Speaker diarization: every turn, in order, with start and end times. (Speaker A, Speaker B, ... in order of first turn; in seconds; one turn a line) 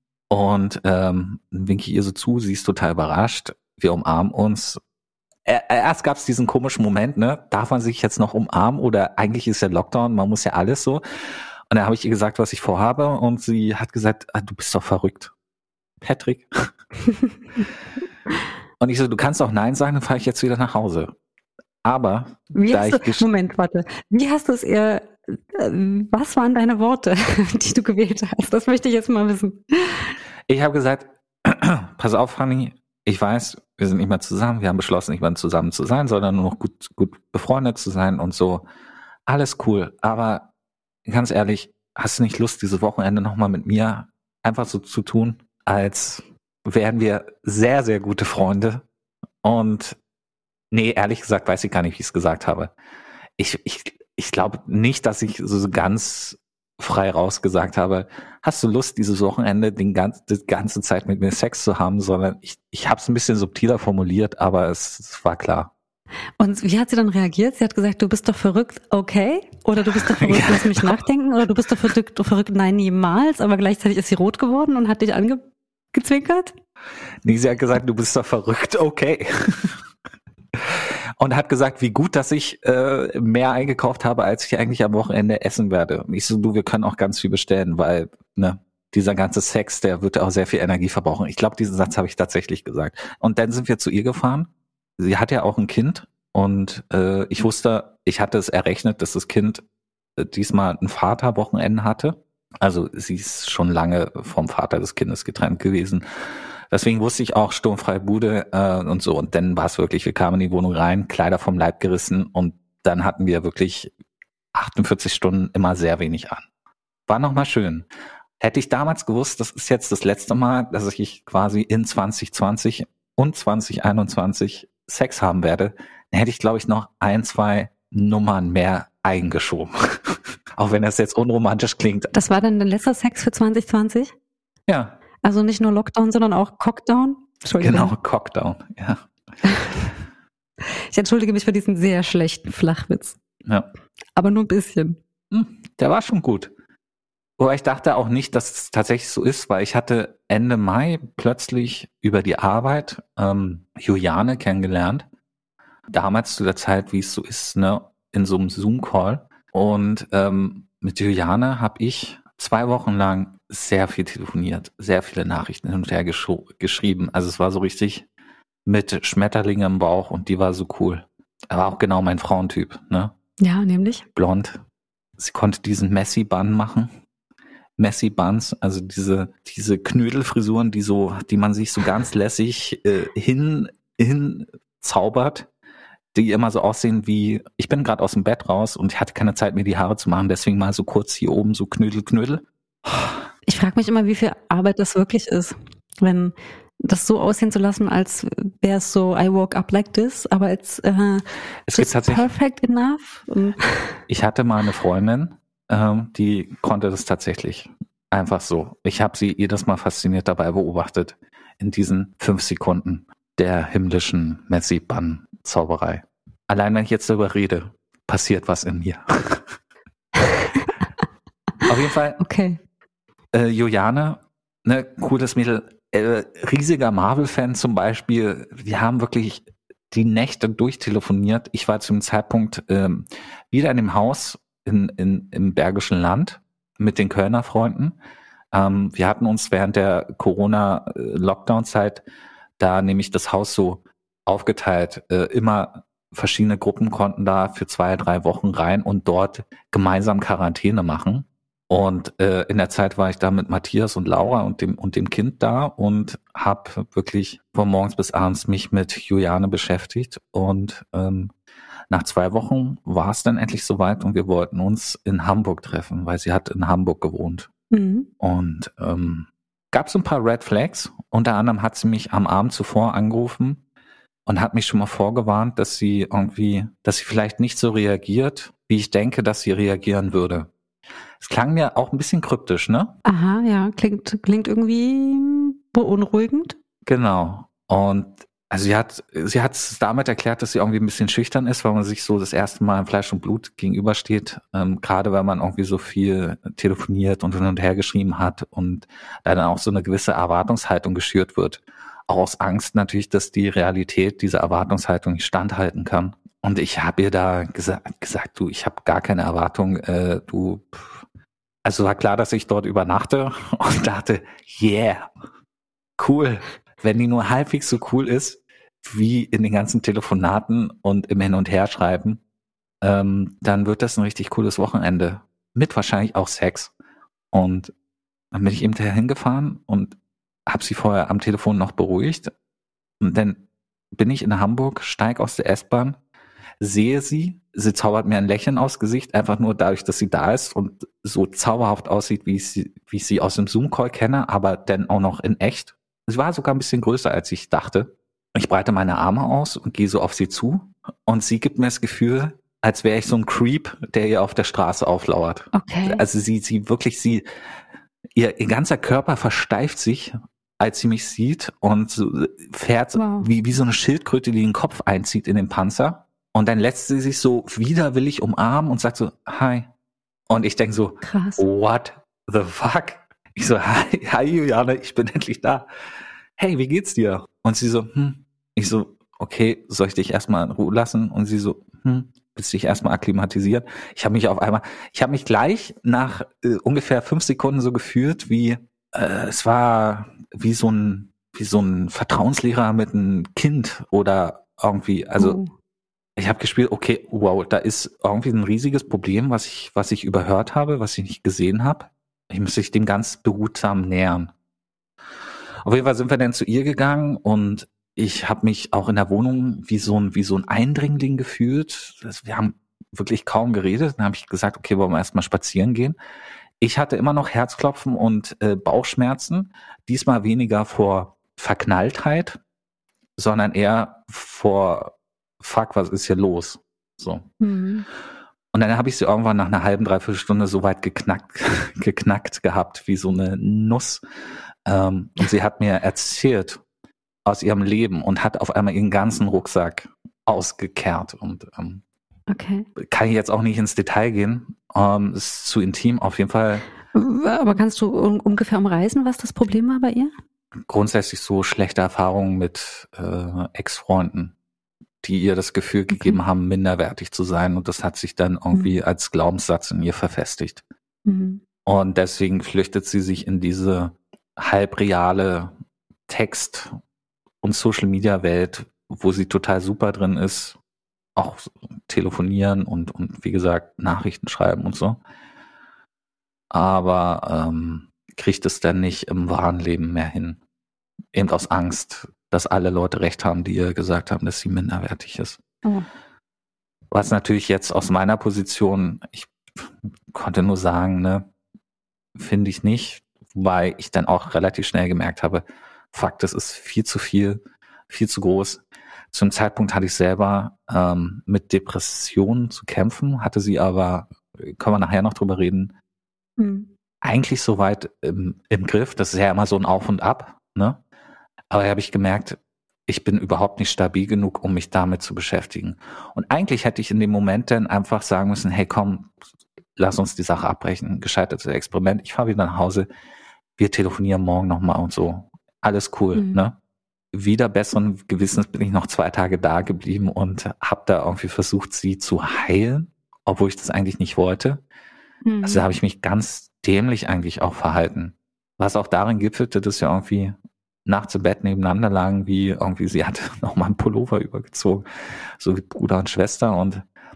Speaker A: 0.3-4.8
Speaker A: 5.5-11.0
Speaker A: 11.7-15.3
Speaker A: 16.0-16.7
Speaker A: 18.8-21.2
Speaker A: 21.8-23.3
Speaker B: 22.6-30.1
Speaker A: 30.5-38.7
Speaker A: 39.3-40.5
Speaker A: 41.1-48.8
Speaker A: 49.4-50.0
Speaker A: 50.7-52.7
Speaker A: 53.4-65.7
Speaker B: 66.4-76.5
Speaker A: 69.9-71.0
Speaker A: 77.2-79.8
Speaker A: 80.6-99.6
Speaker A: 100.2-113.9
Speaker A: 114.5-116.5
Speaker A: 117.1-117.9
Speaker A: 118.4-132.1
Speaker B: 132.1-134.1
Speaker A: 134.7-135.0
Speaker B: 135.2-137.9
Speaker A: 137.6-139.1
Speaker B: 140.6-143.2
Speaker B: 144.2-145.0
Speaker A: 145.3-146.5
Speaker A: 147.4-155.1
Speaker A: 155.9-168.1
Speaker A: 168.7-173.1
Speaker B: 173.4-174.1
Speaker A: 174.2-174.6
Speaker A: 175.2-176.9
Speaker A: 177.8-185.5
Speaker A: 186.1-193.2
Speaker B: 193.5-203.9
Speaker A: 201.7-202.2
Speaker A: 204.1-219.5
Speaker B: 220.2-220.6
Speaker A: 221.7-222.2
Speaker B: 222.2-222.6
Speaker A: 223.3-238.0
Speaker A: 238.5-242.0
Speaker A: 242.6-261.3
Speaker A: 261.9-267.5
Speaker B: 267.7-268.1
Speaker A: 268.2-273.6
Speaker A: 274.3-280.5
Speaker A: 281.2-283.0
Speaker B: 283.1-286.6
Speaker A: 286.9-311.0
Speaker A: 311.6-315.1
Speaker A: 316.0-322.2
Speaker A: 322.8-326.7
Speaker A: 327.3-327.7
Speaker A: 328.3-330.0
Speaker A: 330.5-332.3
Speaker A: 333.0-336.0
Speaker A: 336.6-357.2
Speaker B: 355.5-356.0
Speaker A: 358.2-369.7
Speaker B: 362.9-363.3
Speaker A: 370.3-375.7
Speaker B: 371.0-371.4
Speaker A: 376.4-395.4
Speaker B: 395.2-395.5
Speaker A: 396.2-404.3
Speaker A: 405.6-416.0
Speaker A: 416.6-422.4
Speaker A: 423.2-427.3
Speaker B: 427.4-427.9
Speaker A: 428.5-434.0
Speaker A: 434.7-436.6
Speaker A: 437.2-441.8
Speaker B: 442.3-442.7
Speaker A: 442.8-446.7
Speaker B: 446.9-450.1
Speaker A: 450.7-454.3
Speaker A: 455.0-460.6
Speaker B: 455.9-456.2
Speaker B: 461.1-461.4
Speaker A: 461.7-465.5
Speaker A: 466.1-466.7
Speaker A: 467.4-470.6
Speaker A: 471.2-475.0
Speaker A: 476.5-480.4
Speaker A: 481.1-485.4
Speaker A: 486.9-489.4
Speaker A: 490.1-491.3
Speaker A: 492.2-498.6
Speaker A: 499.1-505.7
Speaker B: 506.4-506.7
Speaker A: 507.0-510.8
Speaker A: 511.5-519.1
Speaker A: 519.8-522.9
Speaker A: 523.6-526.6
Speaker B: 526.1-526.4
Speaker A: 527.1-534.6
Speaker B: 535.2-535.6
Speaker A: 535.4-544.9
Speaker A: 545.4-546.8